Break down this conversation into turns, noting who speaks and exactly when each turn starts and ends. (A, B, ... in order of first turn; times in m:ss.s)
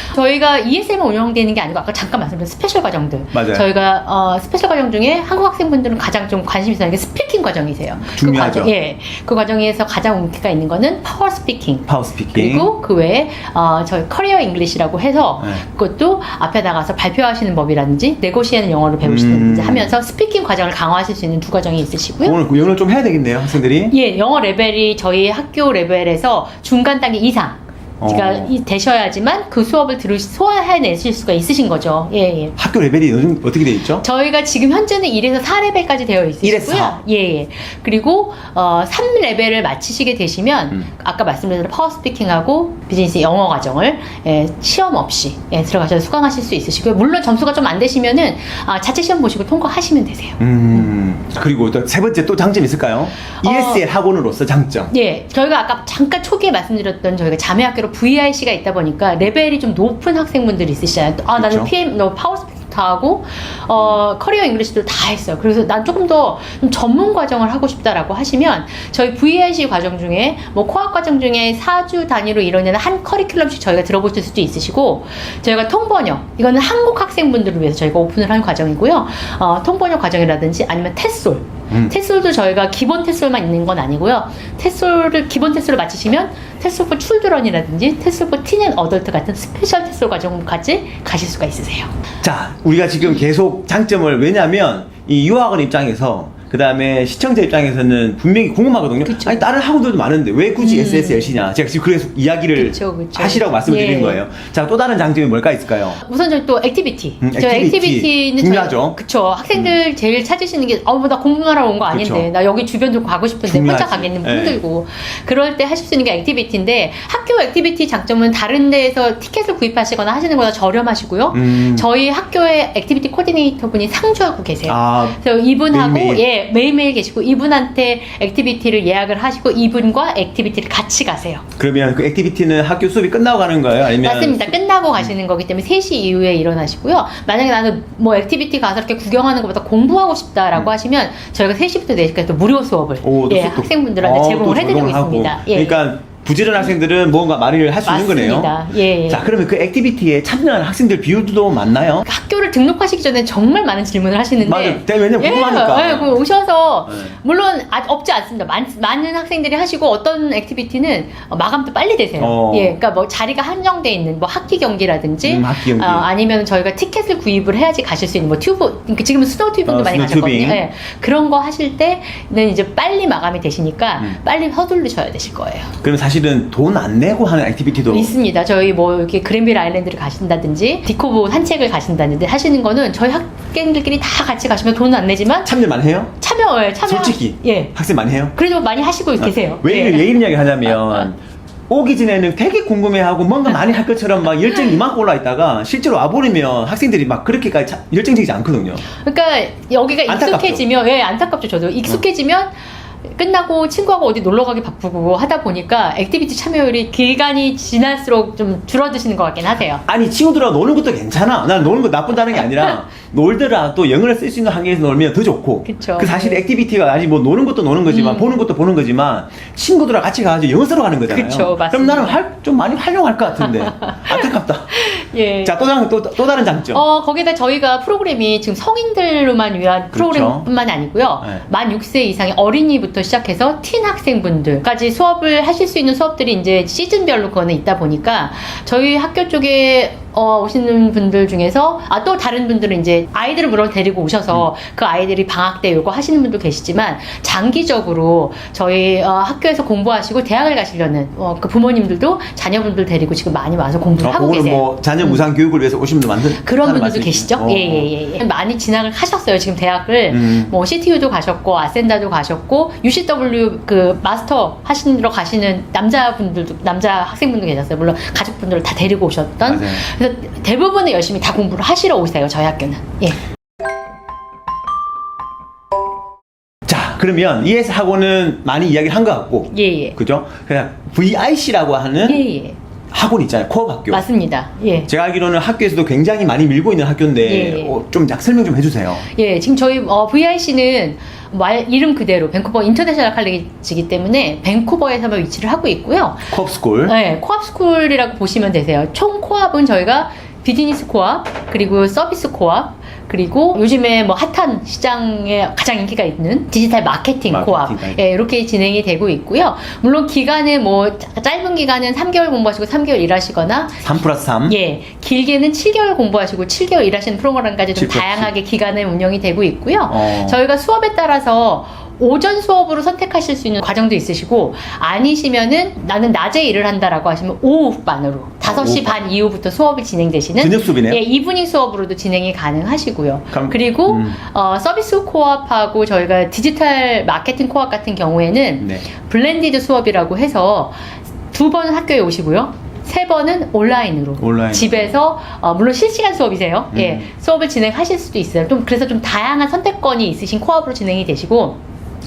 0:00.1-0:22.4 A
0:03.3-0:03.7 B
0:08.0-0:08.7 B
0:11.9-0:12.7 B
0:19.0-0:19.9 B
0:22.2-0:23.9 B
0:23.9-0:32.5 A
0:28.0-0:28.5 B
0:32.6-0:34.0 B
0:34.0-0:50.4 A
0:36.4-0:37.0 B
0:50.4-0:54.9 B
0:53.4-0:53.8 A
0:54.9-1:31.9 A
1:01.4-1:01.7 B
1:32.2-1:46.0 B
1:39.0-1:39.5 A
1:40.6-1:41.4 A
1:42.6-1:44.2 A
1:46.0-2:11.4 A
1:47.2-1:49.0 B
1:51.9-1:52.3 B
1:53.4-1:54.6 B
2:01.3-2:01.9 B
2:04.7-2:06.2 B
2:11.6-2:15.1 B
2:14.0-2:25.8 A
2:23.0-2:28.6 B
2:27.8-2:29.3 A
2:29.1-2:32.1 B
2:32.0-2:55.7 A
2:34.4-2:36.2 B
2:36.9-2:37.2 B
2:42.2-2:42.8 B
2:45.2-2:46.1 B
2:49.7-2:50.6 B
2:55.8-2:58.1 B
2:57.9-3:05.5 A
3:05.4-3:06.2 B
3:06.2-3:07.7 A
3:06.8-3:08.4 B
3:08.3-3:11.1 A
3:09.2-3:18.8 B
3:19.0-3:22.6 A
3:20.1-3:20.6 B
3:23.1-3:29.8 A
3:29.9-3:44.8 B
3:32.4-3:32.7 A
3:35.6-3:36.4 A
3:37.9-3:38.4 A
3:41.1-3:42.2 A
3:43.4-3:45.6 A
3:45.4-3:46.8 B
3:46.7-4:15.2 A
3:49.9-3:50.5 B
4:14.0-4:17.9 B
4:16.4-4:33.2 A
4:20.1-4:20.5 B
4:29.4-4:29.8 B
4:36.7-4:42.2 B
4:39.5-4:40.0 A
4:42.0-4:42.6 A
4:42.9-4:44.0 B
4:43.9-4:44.9 A
4:44.9-4:49.0 B
4:47.2-4:47.8 A
4:49.1-4:56.3 A
4:56.3-4:57.0 B
4:56.8-5:13.9 A
5:07.3-5:08.0 B
5:13.8-5:14.6 B
5:14.5-5:40.8 A
5:17.8-5:18.3 B
5:19.9-5:20.4 B
5:28.4-5:29.0 B
5:30.4-5:31.0 B
5:33.3-5:34.2 B
5:38.6-5:38.9 B
5:41.3-5:51.6 A
5:44.2-5:45.0 B
5:46.7-5:47.1 B